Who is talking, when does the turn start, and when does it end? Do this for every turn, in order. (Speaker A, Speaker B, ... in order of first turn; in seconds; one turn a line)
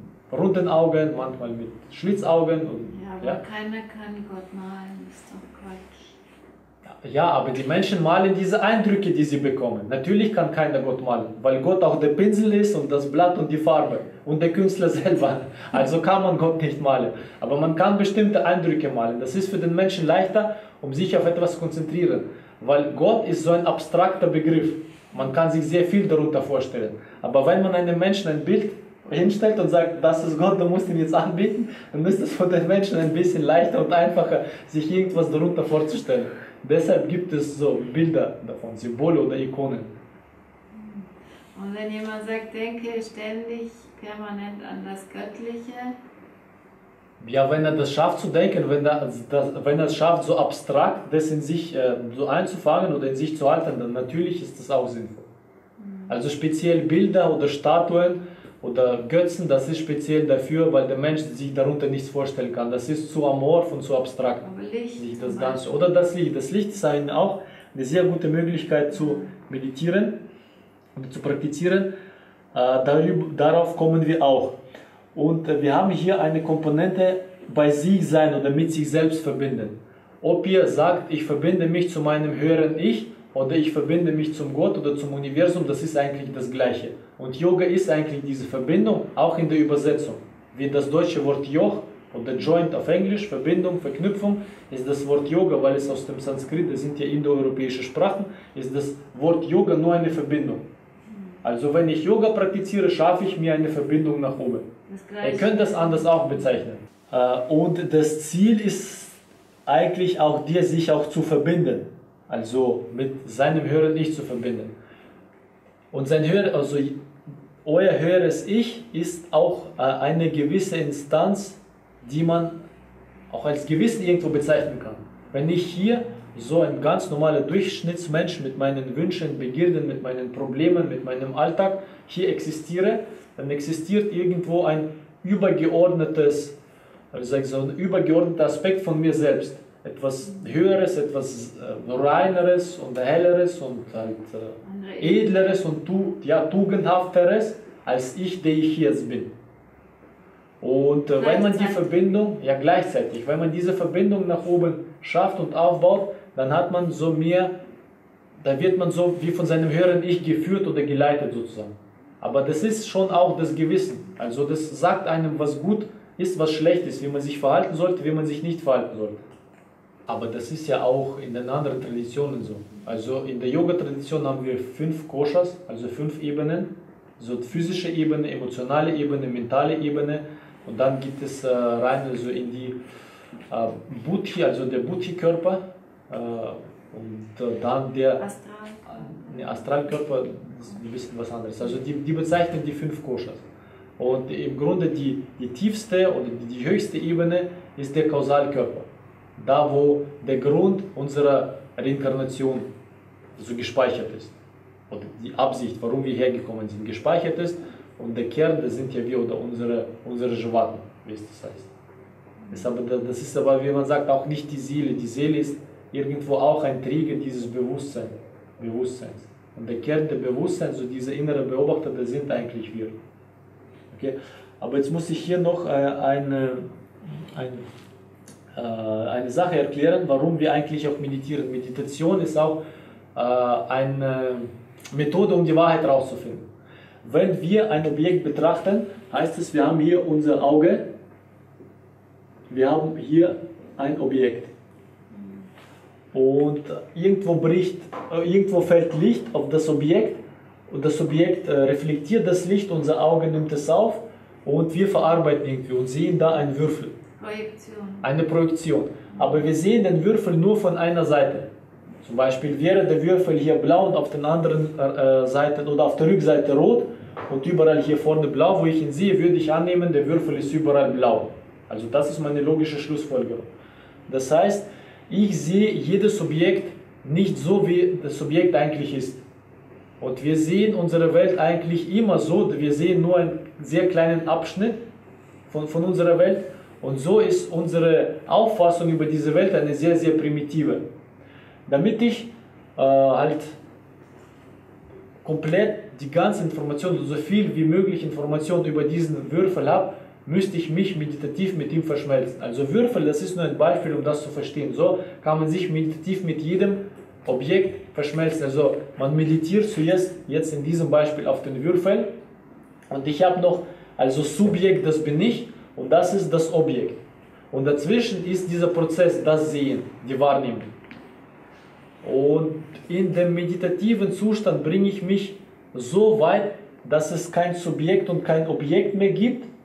Speaker A: 0.3-3.4
Speaker B: 2.9-6.2
Speaker A: 6.9-39.9
Speaker B: 40.7-46.0
Speaker A: 47.2-55.3
Speaker B: 55.8-56.2
Speaker A: 56.1-64.5
Speaker B: 64.4-65.8
Speaker A: 65.0-70.2
Speaker B: 68.9-69.3
Speaker A: 71.0-71.9
Speaker A: 72.5-74.6
Speaker A: 75.1-100.6
Speaker B: 101.1-101.4
Speaker A: 101.4-104.6
Speaker B: 104.9-106.6
Speaker A: 105.2-114.7
Speaker A: 115.9-117.0
Speaker A: 117.6-122.6
Speaker A: 123.3-136.6
Speaker A: 137.1-149.3
Speaker B: 144.6-145.6
Speaker A: 150.6-157.6
Speaker B: 151.1-151.9
Speaker A: 158.4-169.3
Speaker A: 170.1-182.8
Speaker A: 183.5-188.2
Speaker B: 188.2-189.9
Speaker A: 188.9-193.4
Speaker A: 194.0-202.7
Speaker A: 203.4-204.3
Speaker A: 204.9-211.7
Speaker B: 212.4-212.7
Speaker A: 212.5-222.9
Speaker A: 223.9-227.6
Speaker A: 228.6-232.6
Speaker A: 233.1-236.4
Speaker A: 237.0-240.9
Speaker A: 242.5-244.5
Speaker B: 245.1-245.4
Speaker A: 246.1-256.9
Speaker B: 257.2-258.1
Speaker A: 258.0-261.5
Speaker B: 259.1-259.4
Speaker A: 262.0-273.5
Speaker A: 274.1-279.2
Speaker A: 280.0-284.8
Speaker A: 285.5-290.8
Speaker A: 291.7-293.6
Speaker A: 295.2-312.1
Speaker A: 312.9-317.0
Speaker A: 317.5-320.7
Speaker A: 322.0-329.5